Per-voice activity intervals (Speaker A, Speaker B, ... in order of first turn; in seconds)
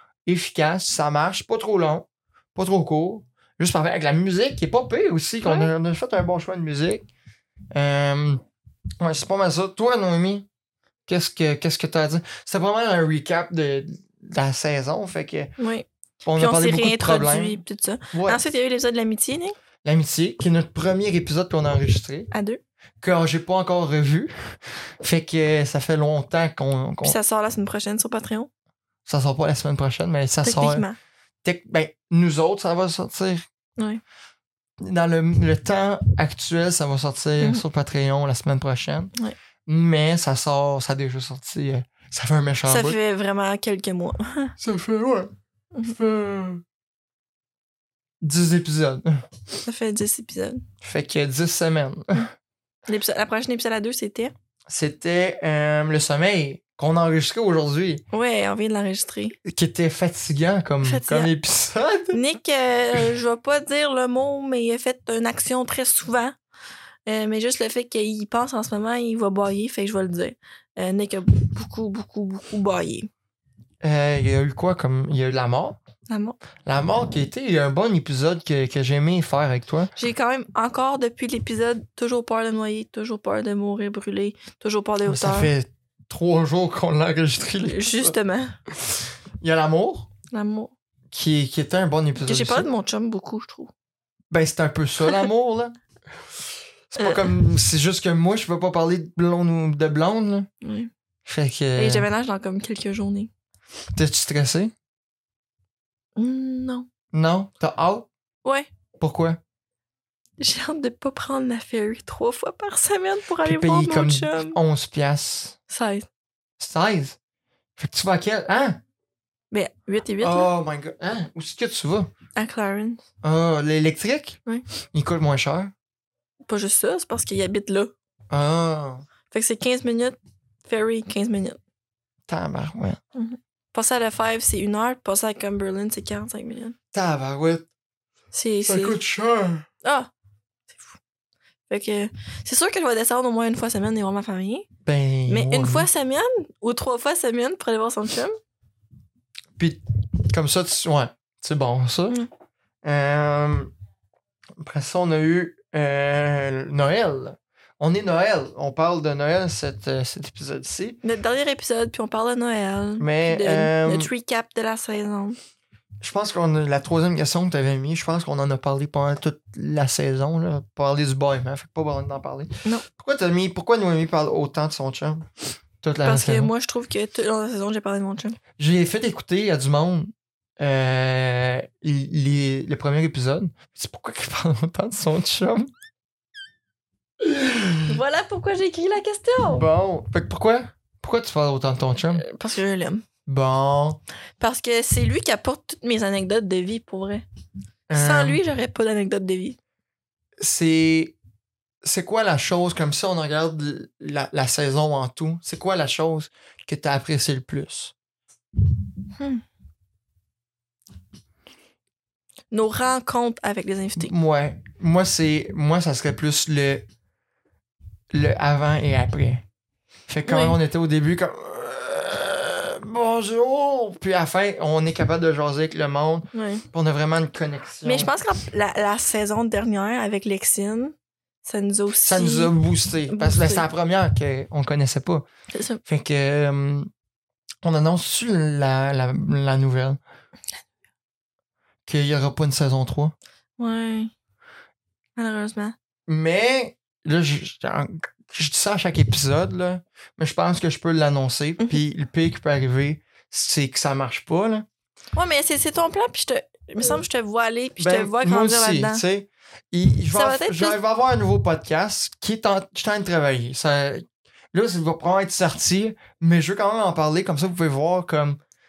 Speaker A: 0.2-7.1, 7.7-8.4, 9.0-10.5, 11.1-15.5, 16.2-17.6, 18.1-18.4, 19.8-22.3, 23.0-27.2, 29.1-30.8, 31.4-33.4, 34.8-39.1, 39.6-43.0, 44.6-45.3, 45.8-46.6, 48.2-49.2, 50.8-52.3, 54.7-58.0, 59.4-62.2, 73.8-75.8, 76.7-79.9, 85.0-88.1, 88.7-90.1, 91.1-92.7, 94.3-95.8, 96.9-100.5, 101.2-102.1, 103.9-104.7, 107.1-108.1, 109.0-109.4, 113.4-115.6, 116.6-117.2, 117.8-118.8, 120.2-122.1, 123.2-124.4, 124.9-125.7, 128.3-129.0, 132.3-133.0, 136.9-137.7, 138.7-139.7, 144.8-145.9, 149.6-152.2, 152.8-153.7, 154.6-161.0, 163.0-164.1, 166.0-175.3, 175.8-176.5, 178.6-185.7, 187.2-188.0, 189.5-192.2, 193.2-194.0, 197.9-198.4, 200.4-201.2, 201.8-207.9, 214.0-216.8, 218.1-219.4, 220.1-228.1, 232.0-235.2, 235.8-236.9, 237.6-240.0, 241.8-243.1, 246.1-254.7, 257.8-268.4
Speaker B: 5.4-5.7, 15.6-19.6, 22.3-22.6, 27.0-28.5, 30.4-30.9, 42.7-44.5, 49.6-50.6, 52.9-54.3, 58.1-59.4, 60.8-61.3, 62.1-66.3, 67.0-73.1, 76.1-76.4, 80.0-85.5, 87.6-88.5, 90.3-90.7, 92.2-93.7, 97.0-97.3, 100.6-100.9, 101.8-103.3, 106.2-106.9, 110.4-114.6, 115.7-116.1, 119.5-120.5, 122.3-123.0, 126.5-127.9, 129.3-131.6, 133.1-136.8, 138.3-139.0, 139.8-140.1, 140.7-140.9, 141.7-144.7, 145.3-148.3, 161.0-165.4, 176.0-178.4, 187.9-189.7, 192.1-193.0, 194.4-197.2, 197.9-199.6, 209.2-209.4, 212.5-214.1, 220.2-220.6, 226.3-226.6, 227.8-232.5, 233.1-233.7, 235.5-235.8, 243.6-244.1, 245.2-245.7, 255.1-259.0, 260.1-260.8